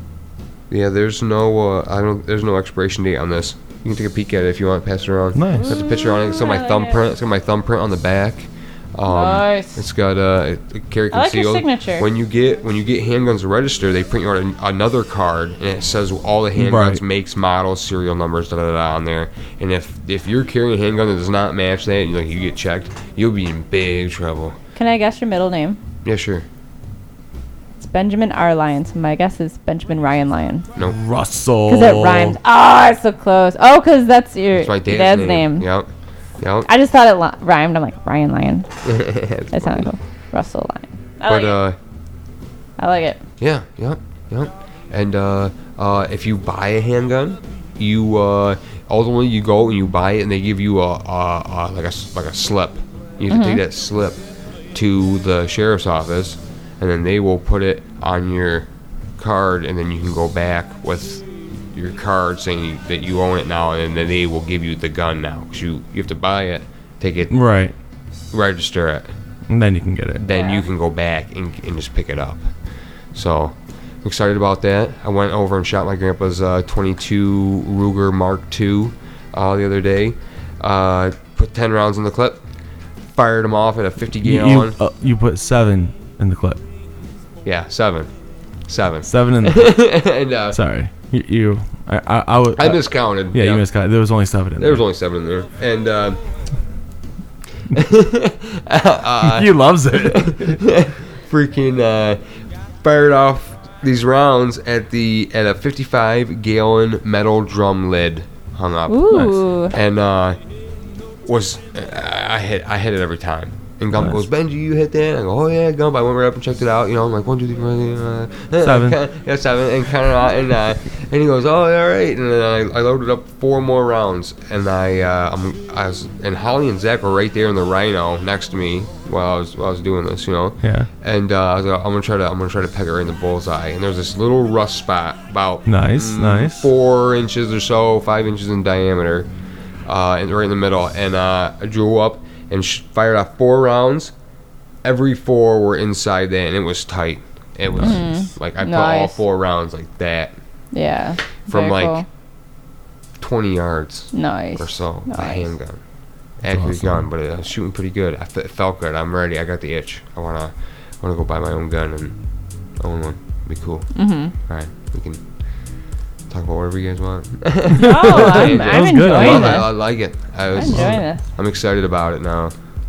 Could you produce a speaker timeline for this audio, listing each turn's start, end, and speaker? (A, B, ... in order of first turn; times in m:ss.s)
0:00.7-0:24.6 A
0:05.3-0:05.8 B
0:05.5-0:07.1 C
0:09.1-0:09.8 C
0:11.1-0:12.1 C
0:16.6-0:17.0 B
0:24.8-0:25.8 C
0:26.0-0:26.5 A
0:27.8-0:30.7 C
0:30.8-0:32.4 B
0:31.7-0:35.7 C
0:34.6-0:35.9 A
0:36.4-0:36.7 A
0:36.7-0:38.7 C
0:38.8-0:39.9 A
0:39.5-0:41.6 C
0:41.3-0:41.8 A
0:42.8-0:43.2 C
0:43.4-0:54.2 A
0:53.3-0:53.6 C
0:54.7-1:07.3 A
1:07.3-1:07.7 B
1:08.3-1:09.1 A
1:09.5-1:10.2 B
1:10.2-1:12.5 A
1:10.3-1:10.6 C
1:13.1-1:22.4 A
1:23.1-1:24.8 A
1:24.2-1:26.6 B
1:27.4-1:28.1 A
1:28.7-1:30.6 A
1:29.0-1:29.7 B
1:30.5-1:34.8 B
1:32.6-1:33.6 A
1:34.6-1:36.2 A
1:37.7-1:42.2 A
1:39.2-1:40.6 B
1:42.8-1:50.4 A
1:48.9-1:49.8 C
1:51.2-2:19.3 A
1:53.9-1:54.2 B
1:58.6-1:59.0 B
2:10.6-2:10.9 B
2:15.7-2:16.7 B
2:19.8-2:24.1 A
2:24.8-2:30.4 A
2:27.8-2:29.2 C
2:30.7-2:32.0 C
2:31.5-2:32.0 A
2:33.2-2:35.8 A
2:34.1-2:35.5 C
2:36.4-2:42.2 A
2:36.5-2:37.1 B
2:42.8-2:45.2 A
2:44.0-2:44.3 C
2:46.3-2:52.6 A
2:47.8-2:49.8 C
2:47.8-2:49.6 B
2:50.5-2:51.2 C
2:50.7-2:51.0 B